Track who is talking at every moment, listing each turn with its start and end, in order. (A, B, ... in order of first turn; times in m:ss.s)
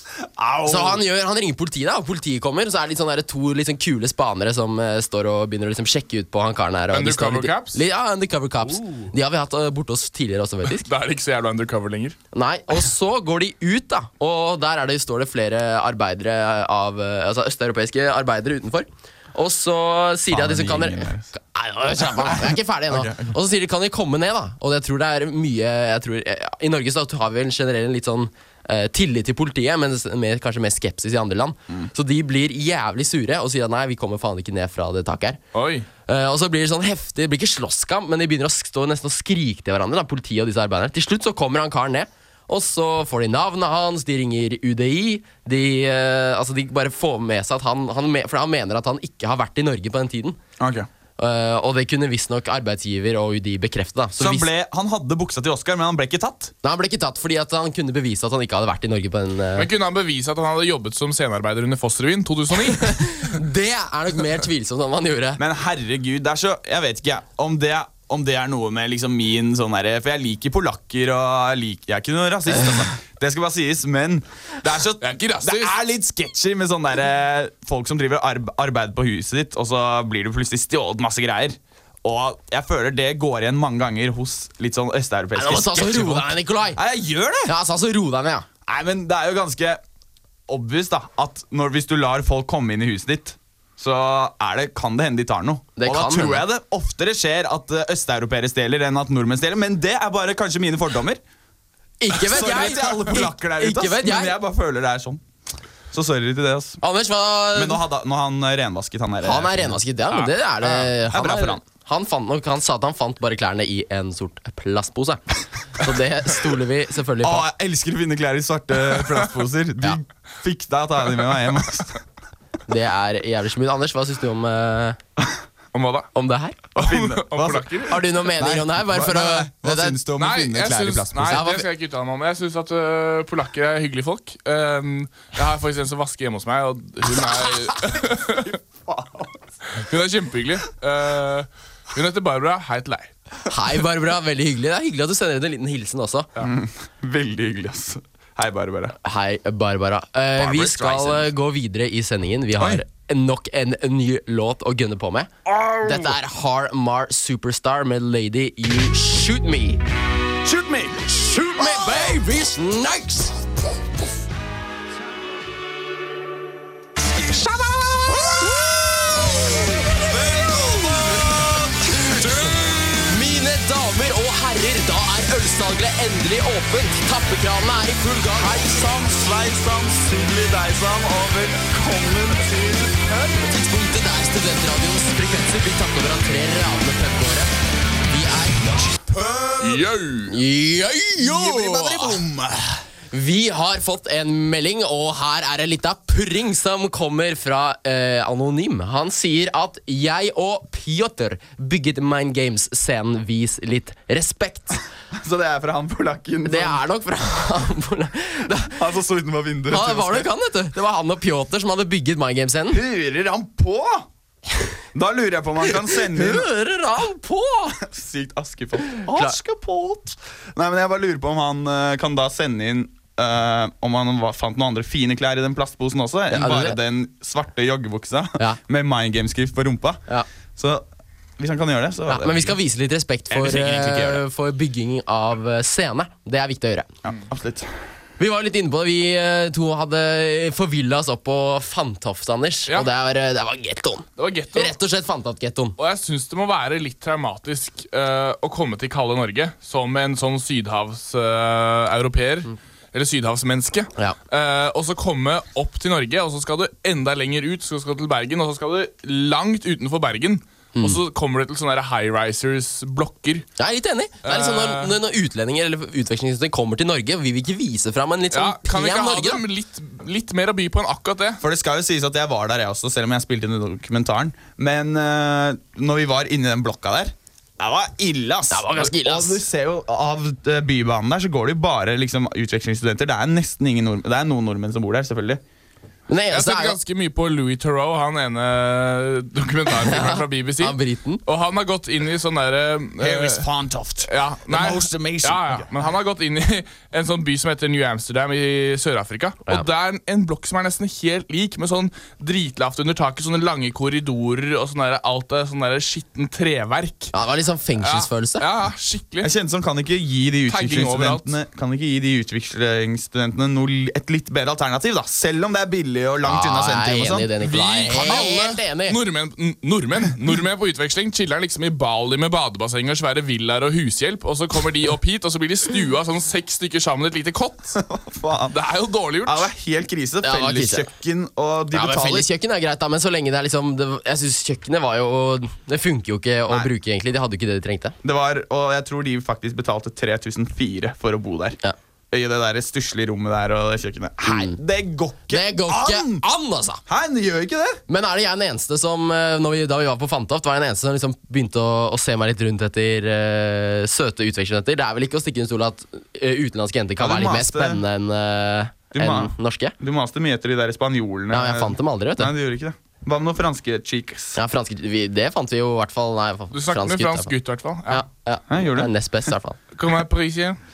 0:00.2-0:01.0 A
0:00.6-0:10.9 B
0:06.9-0:07.8 C
0:10.8-0:12.2 C
0:12.3-0:35.4 B
0:20.3-0:21.3 A
0:22.2-0:23.3 A
0:35.5-0:35.9 C
0:36.1-0:50.4 B
0:50.6-0:50.9 A
0:51.2-0:54.5 B
0:54.2-0:56.5 A
0:56.6-0:59.7 B
0:59.6-1:03.4 C
1:02.9-1:05.4 B
1:05.4-1:27.5 A
1:15.0-1:15.8 C
1:25.4-1:26.8 B
1:27.4-1:28.4 B
1:28.6-1:29.8 A
1:30.5-1:41.2 A
1:35.8-1:36.4 B
1:42.0-1:44.4 B
1:42.1-1:45.2 A
1:45.9-1:46.8 A
1:46.8-1:47.8 B
1:47.5-1:49.8 A
1:49.2-1:55.2 B
1:50.6-1:51.6 A
1:55.8-1:57.5 B
1:57.2-2:02.0 A
2:02.7-2:05.0 B
2:05.7-2:06.1 C
2:06.1-2:06.6 B
2:06.7-2:11.4 A
2:06.8-2:08.0 C
2:07.9-2:10.0 B
2:10.2-2:18.5 C
2:11.2-2:11.6 B
2:17.2-2:17.7 A
2:18.3-2:19.4 A
2:19.7-2:23.1 C
2:23.5-2:26.3 B
2:26.4-2:29.0 A
2:29.0-2:35.3 B
2:30.4-2:31.3 A
2:32.6-2:32.8 A
2:35.4-2:36.2 A
2:35.8-2:39.8 B
2:40.4-2:42.2 A
2:41.1-2:43.4 B
2:47.2-2:48.2 B
2:47.8-2:53.0 A
2:51.9-2:52.2 B
2:53.1-2:58.9 B
2:58.3-3:03.2 A
3:03.3-3:07.5 B
3:08.1-3:08.8 B
3:08.7-3:09.9 A
3:09.6-3:10.4 C
3:10.3-3:12.2 B
3:11.2-3:12.8 A
3:13.1-3:24.8 B
3:25.1-3:26.8 A
3:26.4-3:28.8 B
3:28.7-3:30.3 A
3:29.7-3:32.8 B
3:32.7-3:34.1 A
3:34.9-3:36.5 A
3:35.7-3:37.8 B
3:37.8-3:50.0 A
3:39.0-3:39.4 B
3:46.3-3:46.8 B
3:50.6-3:50.8 A
3:51.4-3:52.6 A
3:52.1-3:56.9 B
3:53.3-3:54.2 A
3:57.0-3:57.7 A
3:58.2-4:05.8 B
4:04.2-4:04.8 C
4:05.8-4:23.5 C
4:23.6-4:29.4 B
4:24.2-4:24.9 C
4:28.3-4:31.4 C
4:31.4-4:45.4 A
4:38.5-4:39.4 B
4:46.1-4:46.8 B
4:46.3-4:53.4 C
4:49.8-4:51.2 B
4:53.0-4:55.7 A
4:54.1-5:07.1 C
5:07.1-5:08.4 B
5:07.8-5:09.3 C
5:09.2-5:17.3 A
5:10.5-5:11.3 C
5:16.2-5:19.0 B
5:17.4-5:27.8 C
5:27.8-5:28.6 A
5:28.5-5:29.5 C
5:29.2-5:32.3 A
5:30.2-5:30.9 B
5:31.7-5:38.0 B
5:38.0-5:41.6 A
5:42.1-5:46.2 A
5:44.2-5:44.6 B
5:45.3-5:46.8 B
5:46.9-5:47.8 A
5:47.9-5:59.7 B
5:57.0-5:57.8 A
5:58.9-6:04.4 A
6:01.3-6:02.3 B
6:04.4-6:07.3 B
6:06.5-6:08.0 C
6:07.9-6:09.6 B
6:08.5-6:08.9 A
6:09.7-6:10.6 C